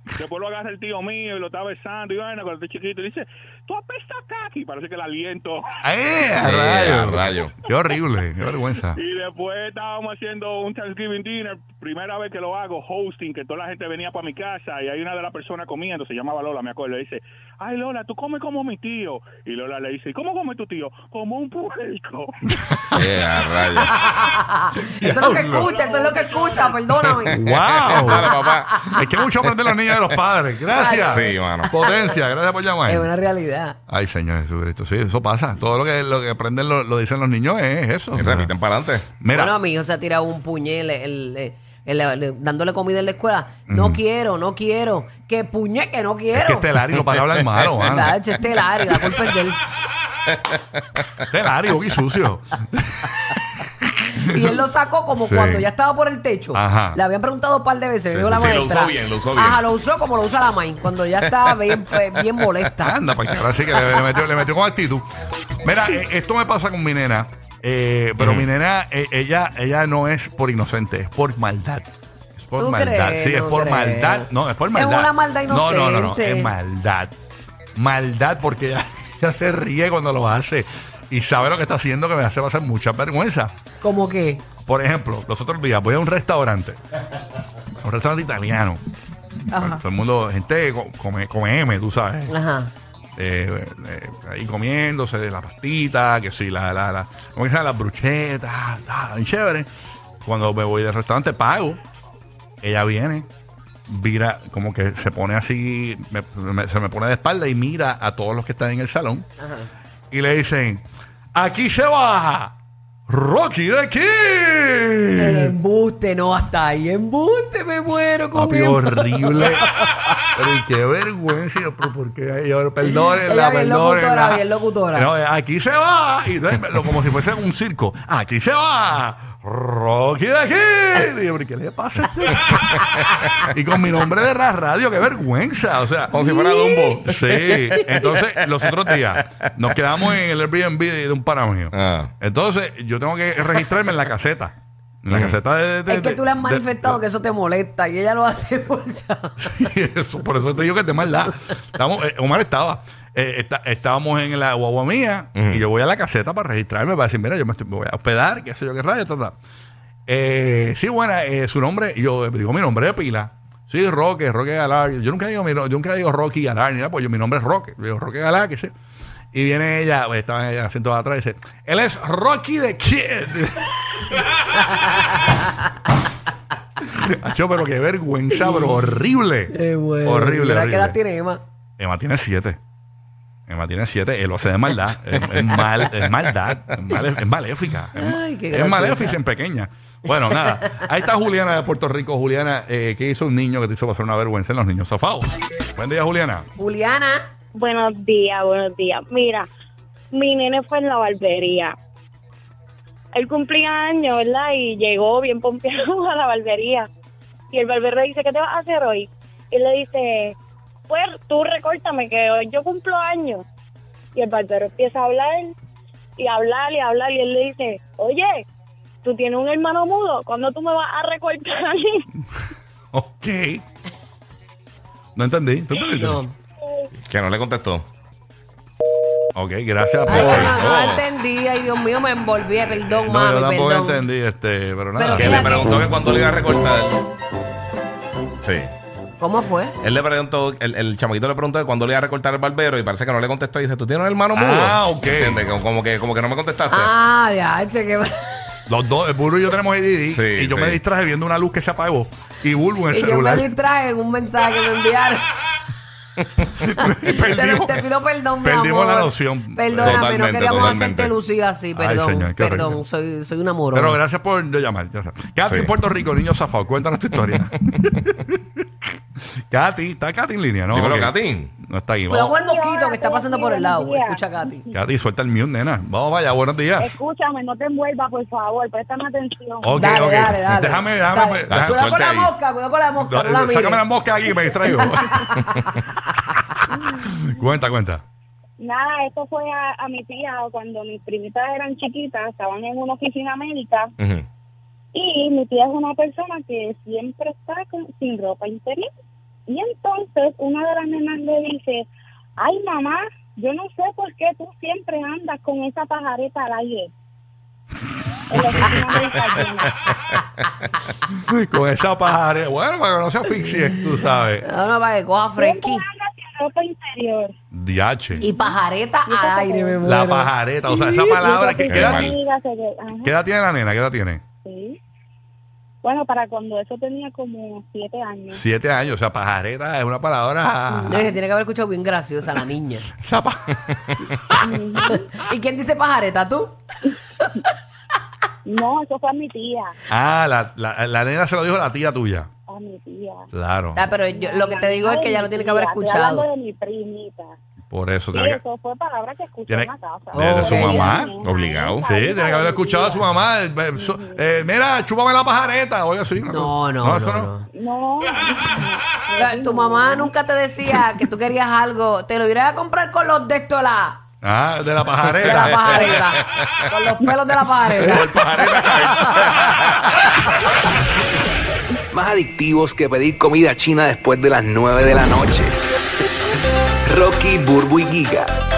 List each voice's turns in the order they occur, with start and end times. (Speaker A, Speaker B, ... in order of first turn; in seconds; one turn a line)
Speaker A: 0.2-5.6
Speaker B: 5.8-9.0
Speaker C: 6.4-7.5
Speaker A: 8.9-22.3
Speaker B: 22.5-23.1
Speaker C: 22.9-23.9
Speaker D: 23.7-29.1
Speaker B: 24.9-25.7
Speaker A: 25.1-26.9
Speaker C: 26.9-30.1
Speaker B: 27.3-28.3
Speaker B: 28.9-33.1
Speaker D: 30.7-32.1
Speaker C: 30.9-31.7
Speaker D: 32.9-33.8
Speaker B: 33.9-38.5
Speaker C: 38.1-39.1
Speaker B: 39.1-39.5
Speaker D: 39.3-46.7
Speaker B: 43.7-44.0
Speaker B: 46.3-48.2
Speaker C: 46.9-47.9
Speaker D: 47.6-49.6
Speaker C: 50.5-51.1
Speaker B: 51.3-53.4
Speaker D: 54.1-63.0
Speaker B: 54.2-54.6
Speaker B: 55.2-55.7
Speaker B: 56.5-57.0
Speaker C: 58.1-59.6
Speaker C: 61.2-62.6
Speaker B: 62.8-65.1
Speaker B: 65.6-77.2
Speaker C: 68.2-68.5
Speaker D: 72.6-76.5
Speaker B: 77.8-83.5
Speaker D: 83.8-84.4
Speaker B: 84.7-86.8
Speaker B: 87.8-88.8
Speaker D: 89.5-89.8
Speaker B: 89.5-92.3
Speaker D: 92.3-92.7
Speaker B: 93.2-99.7
Speaker B: 100.2-101.8
Speaker B: 102.6-103.3
Speaker B: 103.9-109.3
Speaker D: 109.4-109.7
Speaker B: 110.1-112.5
Speaker B: 113.1-115.5
Speaker D: 115.2-120.1
Speaker B: 118.3-119.7
Speaker B: 120.4-136.3
Speaker D: 122.8-125.1
Speaker C: 136.1-139.4
Speaker D: 136.2-136.8
Speaker B: 137.0-147.0
Speaker C: 141.7-142.1
Speaker C: 145.1-145.4
Speaker D: 145.9-149.7
Speaker B: 149.4-159.3
Speaker C: 155.4-155.6
Speaker B: 160.1-168.7
Speaker B: 169.3-174.3
Speaker B: 176.8-181.0
Speaker D: 179.5-181.4
Speaker B: 181.8-182.6
Speaker B: 183.5-196.5
Speaker C: 185.3-185.9
Speaker D: 188.0-189.2
Speaker D: 196.6-197.2
Speaker E: 197.6-199.5
Speaker E: 200.1-201.7
Speaker E: 203.1-206.9
Speaker E: 207.5-210.4
Speaker E: 210.9-213.4
Speaker E: 214.2-215.5
Speaker E: 216.2-218.4
Speaker E: 219.0-222.1
Speaker B: 222.9-223.6
Speaker B: 225.2-226.2
Speaker D: 225.9-226.3
Speaker C: 227.0-227.8
Speaker B: 229.3-230.6
Speaker D: 230.1-234.0
Speaker C: 230.1-231.1
Speaker B: 233.0-235.6
Speaker D: 235.0-235.9
Speaker C: 235.2-237.0
Speaker C: 238.4-238.7
Speaker D: 239.2-239.8
Speaker C: 239.8-246.9
Speaker B: 244.3-245.4
Speaker D: 246.7-248.3
Speaker B: 248.7-253.5
Speaker C: 250.1-250.8
Speaker D: 252.9-255.3
Speaker B: 256.6-257.9
Speaker D: 256.7-264.0
Speaker B: 258.4-260.7
Speaker C: 259.8-261.1
Speaker B: 261.7-262.8
Speaker B: 263.7-268.6
Speaker B: 269.5-272.3
Speaker C: 270.7-271.5
Speaker D: 272.1-274.6
Speaker E: 272.3-274.7
Speaker B: 274.7-276.9
Speaker E: 276.8-280.3
Speaker B: 279.6-281.9
Speaker D: 279.8-283.8
Speaker C: 281.5-282.3
Speaker B: 283.0-288.0
Speaker D: 284.7-285.9
Speaker E: 286.7-287.1
Speaker E: 288.6-293.9
Speaker E: 294.9-298.9
Speaker E: 299.5-301.9
Speaker E: 302.4-306.9
Speaker E: 308.3-309.9
Speaker B: 311.1-314.5
Speaker D: 314.4-315.8
Speaker E: 315.4-317.3
Speaker B: 317.5-318.2
Speaker E: 318.2-318.6
Speaker D: 318.2-321.3
Speaker E: 319.1-319.9
Speaker B: 319.8-322.2
Speaker E: 321.2-323.1
Speaker C: 321.7-322.2
Speaker B: 323.0-324.2
Speaker E: 324.4-324.8
Speaker E: 325.8-328.4
Speaker B: 328.3-331.1
Speaker E: 330.8-331.1
Speaker D: 330.9-332.9
Speaker B: 333.0-334.5
Speaker E: 334.4-335.0
Speaker D: 334.9-336.6
Speaker E: 338.5-339.8
Speaker B: 339.9-342.3
Speaker E: 342.5-343.3
Speaker B: 343.3-343.8
Speaker D: 343.8-346.2
Speaker E: 344.0-347.3
Speaker B: 347.7-348.4
Speaker E: 348.1-353.1
Speaker B: 349.5-351.1
Speaker D: 350.1-351.1
Speaker C: 351.2-351.9
Speaker B: 351.8-357.3
Speaker E: 353.7-354.3
Speaker D: 356.3-357.4
Speaker E: 357.5-360.1
Speaker D: 359.2-364.0
Speaker B: 364.2-366.0
Speaker D: 365.1-369.7
Speaker C: 365.2-366.5
Speaker B: 367.7-369.9
Speaker C: 367.9-369.9
Speaker F: 371.9-375.5
Speaker F: 376.9-378.3